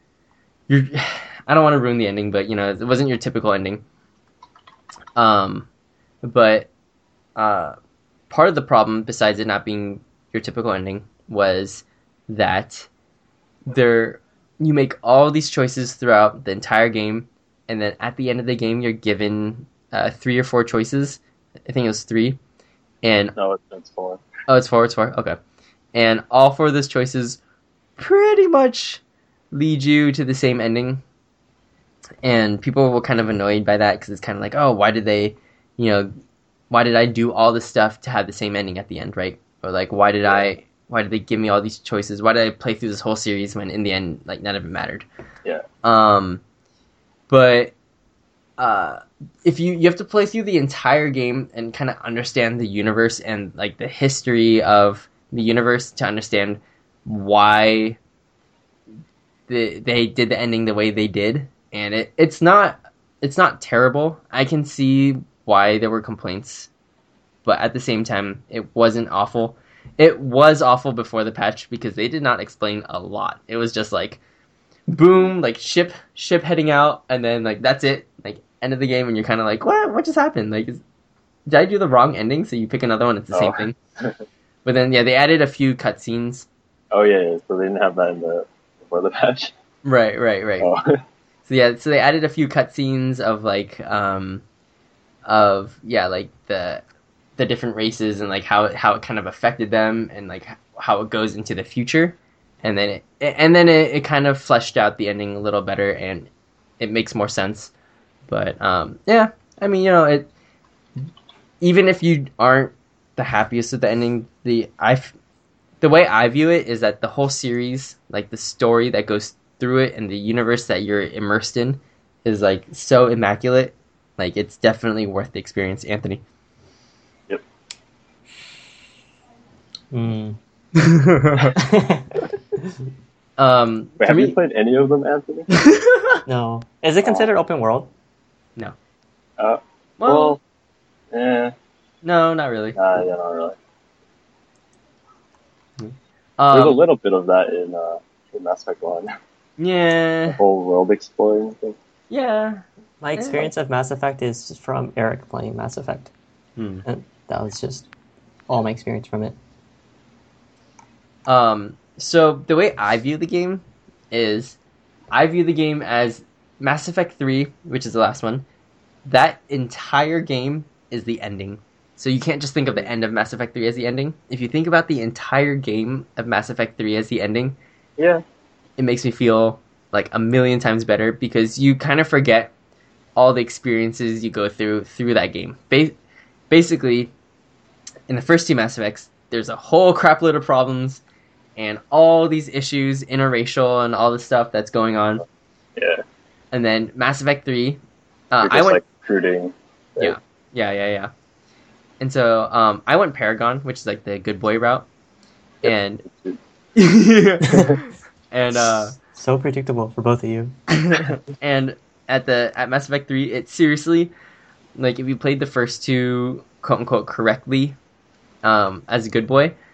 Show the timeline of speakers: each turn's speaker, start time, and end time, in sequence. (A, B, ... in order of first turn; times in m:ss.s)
0:00.7-0:03.8 A
0:05.2-0:05.7 A
0:06.2-0:06.7 A
0:07.4-0:07.8 A
0:08.3-0:12.9 A
0:13.7-0:22.4 A
0:23.0-0:23.3 A
0:23.4-0:24.2 B
0:24.5-0:25.4 A
0:25.9-0:27.4 A
0:28.0-0:29.0 A
0:29.5-0:31.0 A
0:32.2-0:36.1 A
0:36.7-0:45.0 A
0:45.8-0:46.4 A
0:47.3-0:47.7 A
0:48.6-0:58.0 A
0:59.5-1:06.7 A
1:07.4-1:14.2 A
1:14.9-1:20.8 A
1:21.5-1:23.8 A
1:23.3-1:24.2 B
1:24.6-1:26.5 A
1:26.9-1:29.5 B
1:29.8-1:30.7 A
1:30.6-1:31.0 B
1:31.4-1:34.4 A
1:35.2-1:36.8 A
1:37.4-1:46.3 A
1:46.8-1:47.7 A
1:48.3-1:50.3 A
1:51.6-1:55.1 A
1:55.8-2:06.2 A
2:09.9-2:10.4 C
2:10.8-2:11.6 A
2:11.6-2:12.2 C
2:13.4-2:14.4 A
2:14.0-2:15.5 B
2:15.5-2:16.2 A
2:16.3-2:17.9 C
2:19.4-2:20.4 B
2:20.0-2:20.4 A
2:21.1-2:21.5 B
2:22.0-2:22.8 A
2:22.8-2:23.6 B
2:25.8-2:26.8 A
2:26.5-2:29.1 B
2:29.6-2:30.4 A
2:30.3-2:31.8 B
2:32.1-2:32.6 A
2:33.0-2:36.1 C
2:33.1-2:33.5 A
2:36.6-2:36.8 A
2:36.8-2:37.9 C
2:38.5-2:39.4 C
2:41.2-2:44.6 A
2:45.1-2:48.4 A
2:49.0-2:57.6 A
2:58.0-2:58.2 B
2:58.8-3:02.5 A
3:03.2-3:05.9 A
3:06.5-3:07.1 A
3:08.1-3:11.0 A
3:11.6-3:15.2 A
3:15.8-3:16.0 B
3:16.5-3:18.8 A
3:18.4-3:20.2 B
3:20.0-3:21.1 A
3:22.0-3:24.9 A
3:25.6-3:26.4 B
3:25.6-3:26.0 A
3:26.7-3:29.0 A
3:27.5-3:27.8 B
3:29.1-3:30.6 C
3:30.7-3:34.1 A
3:34.8-3:37.8 A
3:38.4-3:39.6 A